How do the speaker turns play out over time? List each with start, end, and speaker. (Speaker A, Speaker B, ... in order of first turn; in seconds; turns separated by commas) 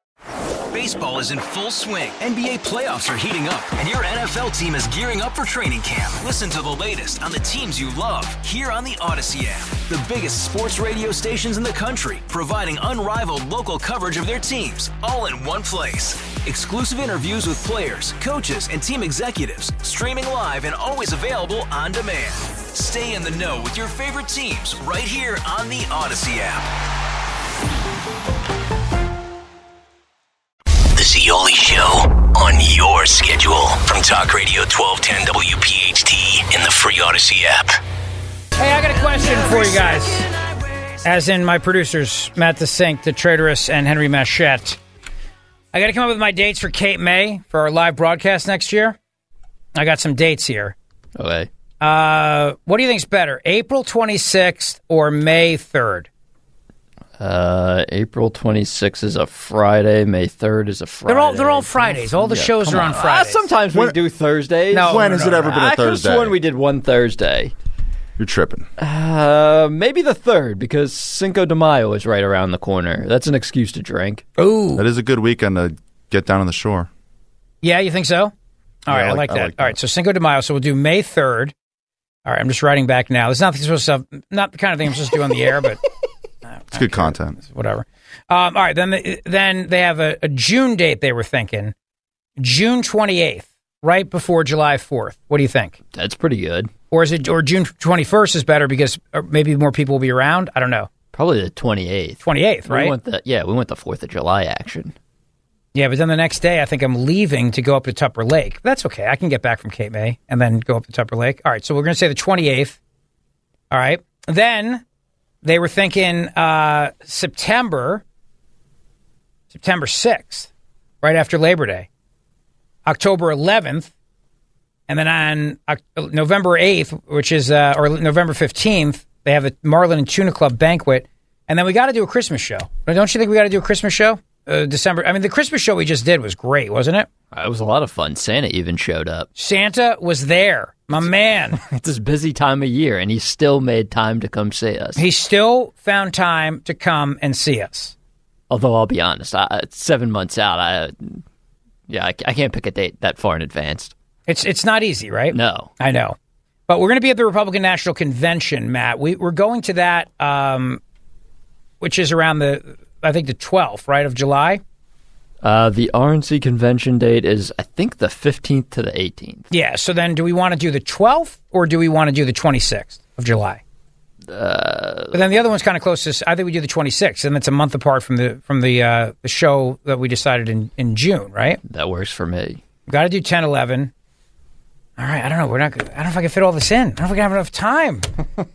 Speaker A: 0.7-26.7, Speaker B: 30.9-37.8, Speaker C: 38.6-40.3, Speaker C: 41.0-44.8, Speaker C: 45.7-49.0, Speaker C: 49.8-50.8, Speaker D: 51.2-51.5, Speaker C: 51.8-56.1, Speaker D: 57.2-67.5, Speaker C: 61.1-63.5, Speaker C: 64.7-65.4, Speaker E: 64.9-66.4, Speaker E: 68.2-68.7, Speaker D: 68.8-74.2, Speaker C: 74.4-74.8, Speaker E: 74.8-76.9, Speaker C: 77.6-78.3, Speaker C: 78.9-81.5, Speaker E: 78.9-79.8, Speaker C: 82.3-85.8, Speaker C: 86.7-91.7, Speaker E: 86.7-87.4, Speaker C: 92.4-95.8, Speaker D: 95.9-96.7, Speaker C: 96.9-100.9, Speaker D: 101.1-105.0, Speaker C: 102.2-103.0, Speaker C: 105.8-112.8, Speaker C: 113.7-114.8, Speaker C: 115.4-118.0, Speaker C: 119.5-120.5, Speaker C: 121.0-121.9, Speaker C: 122.9-123.9, Speaker C: 124.9-137.1, Speaker D: 137.3-139.3, Speaker C: 139.4-141.6, Speaker D: 141.6-145.0, Speaker C: 145.0-147.9, Speaker D: 148.5-151.2, Speaker D: 151.9-153.9, Speaker C: 154.3-156.2, Speaker D: 155.3-155.7, Speaker C: 156.7-160.8, Speaker C: 161.8-164.6, Speaker D: 165.4-169.5, Speaker C: 169.5-173.6, Speaker D: 174.3-175.2, Speaker C: 175.1-181.6, Speaker D: 181.7-182.6, Speaker C: 182.9-183.9, Speaker C: 185.0-188.1